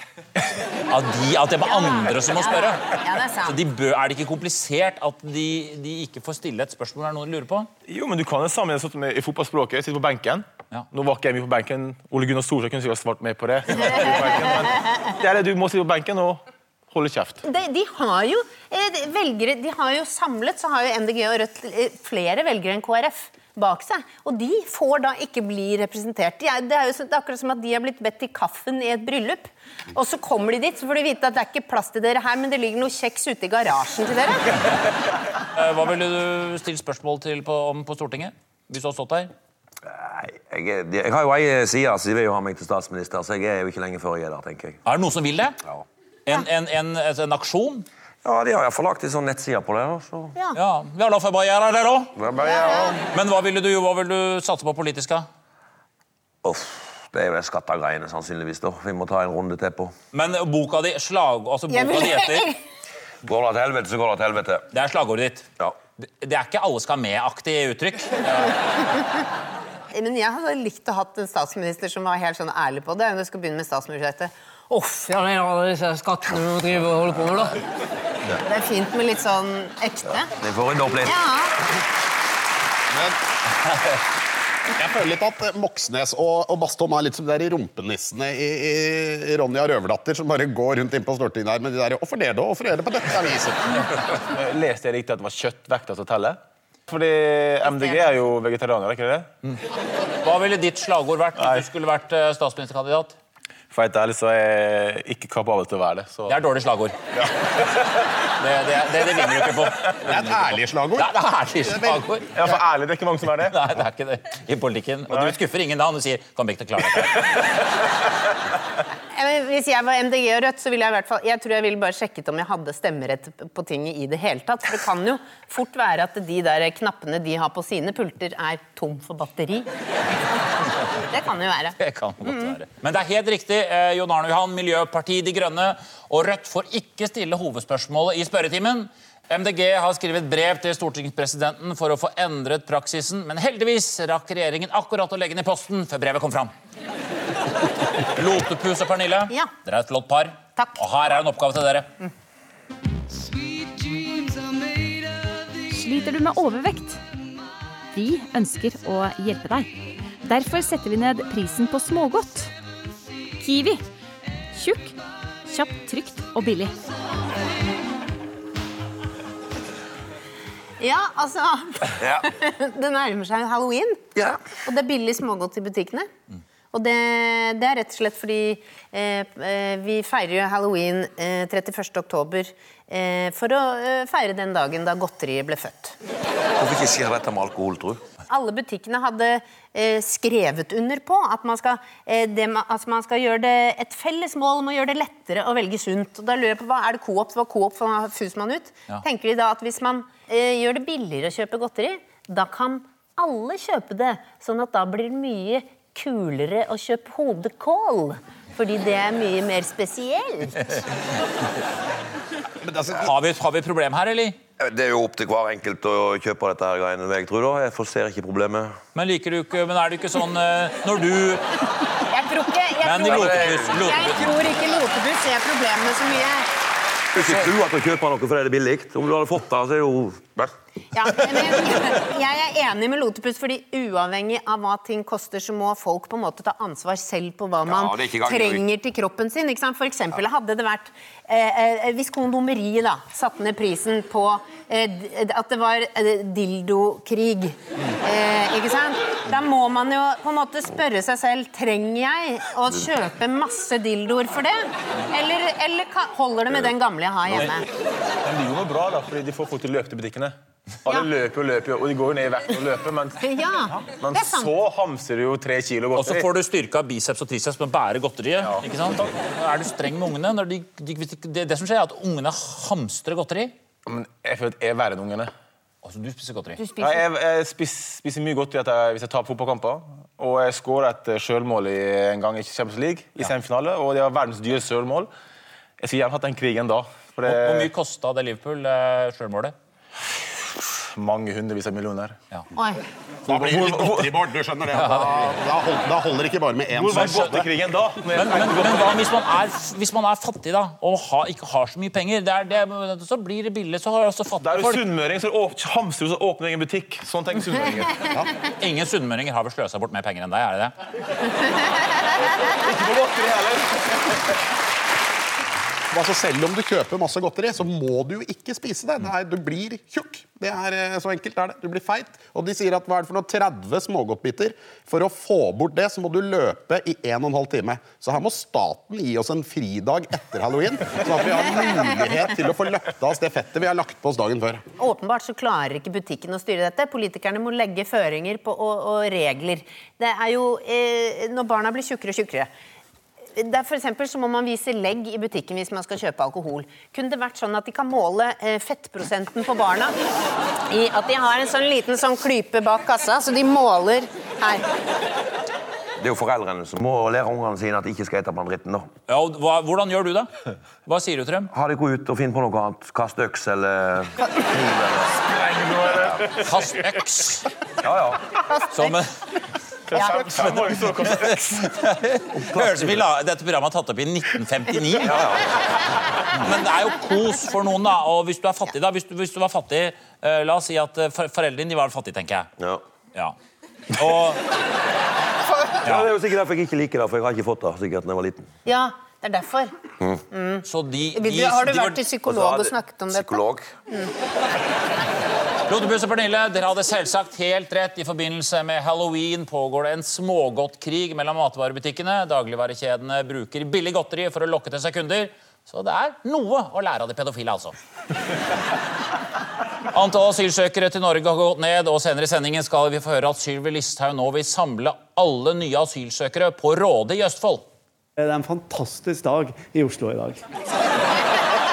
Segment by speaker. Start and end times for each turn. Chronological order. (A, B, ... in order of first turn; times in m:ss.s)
0:00.9-0:02.8 A
0:01.6-0:03.6 B
0:03.4-0:07.7 A
0:07.8-0:17.4 C
0:17.4-0:34.6 B
0:35.6-0:39.3 A
0:39.8-0:44.8 D
0:44.8-0:45.6 A
0:46.2-0:47.8 A
0:48.2-0:50.3 D
0:50.5-0:52.1 A
0:52.2-0:53.0 D
0:52.4-0:53.0 B
0:53.0-0:55.3 A
0:56.4-0:59.9 D
1:00.1-1:02.5 A
1:01.7-1:02.6 B
1:03.2-1:04.7 D
1:04.7-1:05.4 A
1:06.0-1:08.3 A
1:09.9-1:17.6 B
1:18.4-1:20.3 B
1:20.3-1:21.2 D
1:21.0-1:21.6 B
1:24.7-1:33.9 E
1:34.3-1:39.3 C
1:40.2-1:43.2 A
1:43.7-1:46.4 C
1:46.3-1:47.0 A
1:48.4-1:50.4 A
1:50.0-1:51.1 E
1:51.0-1:52.3 A
1:51.6-1:52.0 E
1:52.3-1:53.6 C
1:53.5-1:57.4 A
1:59.1-2:09.7 B
2:11.0-2:11.8 B
2:11.8-2:26.5 A
2:28.1-2:31.9 A
2:35.7-2:37.0 F
2:37.9-2:42.5 F
2:43.4-2:43.8 F
2:44.5-2:45.0 F
2:45.5-2:46.8 F
2:50.8-2:56.1 B
2:52.0-2:52.2 D
2:56.7-3:05.9 B
3:06.6-3:08.0 D
3:08.3-3:30.8 B
3:32.6-3:33.1 E
3:33.0-3:34.4 A
3:34.6-3:38.8 D
3:38.9-3:41.4 A
3:42.1-3:46.5 B
3:42.8-3:44.3 A
3:43.1-3:43.6 D
3:47.1-3:50.5 D
3:50.9-4:17.6 B
3:57.6-3:58.6 D
4:18.2-4:20.3 C
4:20.8-4:23.2 C
4:23.2-4:24.5 B
4:23.8-4:26.3 C
4:26.0-4:33.5 A
4:33.8-4:35.3 C
4:35.8-4:36.6 A
4:36.6-4:37.0 B
4:36.8-4:45.1 C
4:45.8-4:47.7 C
4:47.2-4:49.5 A
4:50.9-4:52.2 C
4:52.6-4:52.8 B
4:53.2-4:54.1 C
4:53.3-4:57.5 E
4:54.8-4:55.3 A
4:56.7-4:59.0 C
4:56.9-4:57.3 A
4:58.1-5:04.8 A
5:04.4-5:08.1 C
5:08.6-5:10.7 A
5:12.5-5:13.8 C
5:15.9-5:34.6 E
5:34.8-5:42.5 B
5:43.4-5:50.0 B
5:50.7-5:54.6 B
5:56.0-5:58.9 D
5:59.1-6:00.3 A
6:00.8-6:01.5 A
6:01.5-6:05.2 D
6:05.4-6:06.3 C
6:05.9-6:06.2 D
6:06.4-6:07.5 A
6:07.8-6:08.3 D
6:08.5-6:08.9 B
6:08.7-6:09.1 A
6:09.9-6:11.6 C
6:09.9-6:10.2 B
6:10.2-6:15.1 A
6:12.4-6:13.0 D
6:15.0-6:15.6 D
6:16.3-6:22.5 A
6:23.9-6:24.4 A
6:25.6-6:28.5 D
6:28.6-6:29.7 B
6:30.3-6:34.1 B
6:30.6-6:32.0 A
6:32.2-6:33.7 D
6:35.7-6:47.7 A
6:49.9-6:57.6 A
6:58.2-7:00.4 G